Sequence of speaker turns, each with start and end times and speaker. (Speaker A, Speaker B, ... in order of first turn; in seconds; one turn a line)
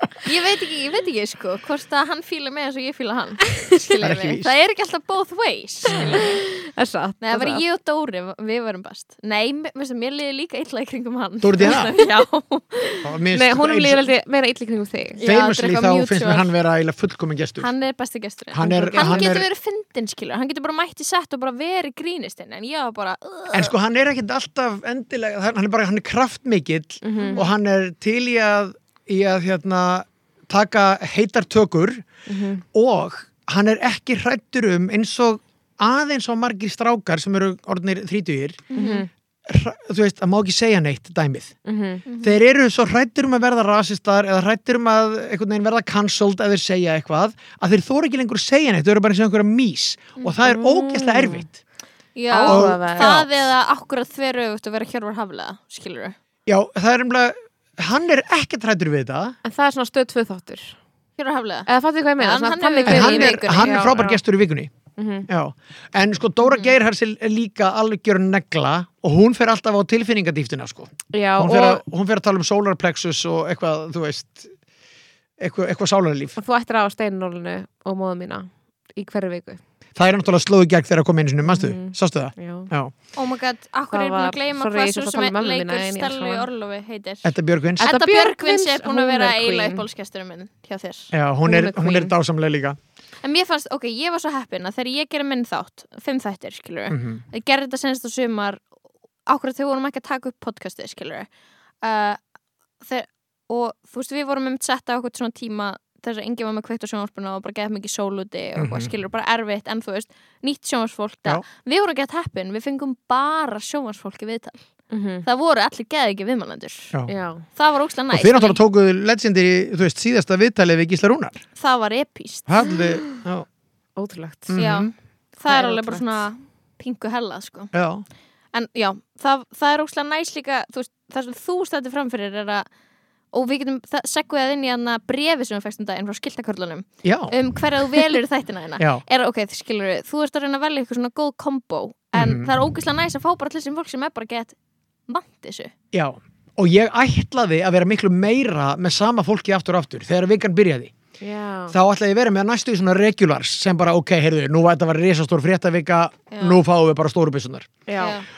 Speaker A: 0.2-6.4
Speaker B: 4.0-4.5
Speaker B: 5.9-6.2
Speaker C: 5.9-7.6
Speaker A: 7.2-13.1
Speaker B: 11.4-11.9
Speaker C: 11.7-12.1
Speaker B: 13.0-14.1
Speaker C: 13.3-15.2
Speaker A: 15.2-16.5
Speaker B: 15.2-17.7
Speaker A: 17.6-23.7
Speaker B: 18.5-19.5
Speaker C: 18.6-19.4
Speaker B: 23.5-32.0
Speaker C: 27.0-27.4
Speaker A: 27.2-27.5
Speaker C: 32.3-32.6
Speaker B: 32.7-38.6
Speaker A: 38.7-39.1
Speaker C: 38.7-39.1
Speaker B: 39.5-41.6
Speaker C: 41.6-42.0
Speaker A: 42.1-42.4
Speaker B: 42.2-51.5
Speaker C: 50.4-51.5
Speaker A: 52.1-56.2
Speaker C: 52.3-53.2
Speaker B: 52.4-53.4
Speaker B: 56.5-59.4
Speaker C: 59.5-60.8
Speaker A: 61.2-63.9
Speaker C: 61.7-64.2
Speaker B: 62.9-64.7
Speaker C: 65.0-65.3
Speaker B: 65.3-74.5
Speaker A: 66.5-66.7
Speaker C: 71.1-71.8
Speaker B: 75.4-76.4
Speaker C: 76.4-79.6
Speaker B: 80.0-82.9
Speaker C: 81.5-82.7
Speaker A: 83.2-87.2
Speaker C: 83.9-86.5
Speaker B: 87.2-87.9
Speaker C: 87.8-89.8
Speaker A: 87.8-91.1
Speaker B: 91.1-92.8
Speaker C: 91.5-92.1
Speaker A: 93.2-98.6
Speaker B: 96.9-97.2
Speaker A: 99.3-101.3
Speaker A: 101.8-102.2
Speaker A: 102.8-114.7
Speaker B: 108.6-108.9
Speaker C: 114.9-115.2
Speaker A: 115.2-116.9
Speaker C: 117.1-117.4
Speaker A: 117.6-118.6
Speaker B: 118.1-121.4
Speaker A: 121.6-122.6
Speaker B: 122.5-123.5
Speaker C: 122.7-123.2
Speaker C: 124.0-124.7
Speaker B: 124.5-124.9
Speaker A: 124.6-127.7
Speaker C: 125.5-126.0
Speaker B: 127.7-128.0
Speaker A: 128.5-132.7
Speaker A: 133.3-144.6
Speaker B: 137.0-137.4
Speaker B: 138.8-139.0
Speaker B: 142.1-142.5
Speaker A: 145.1-145.7
Speaker B: 145.9-150.9
Speaker C: 151.2-151.8
Speaker B: 151.7-157.7
Speaker A: 156.3-156.6
Speaker C: 157.9-158.2
Speaker A: 158.0-158.3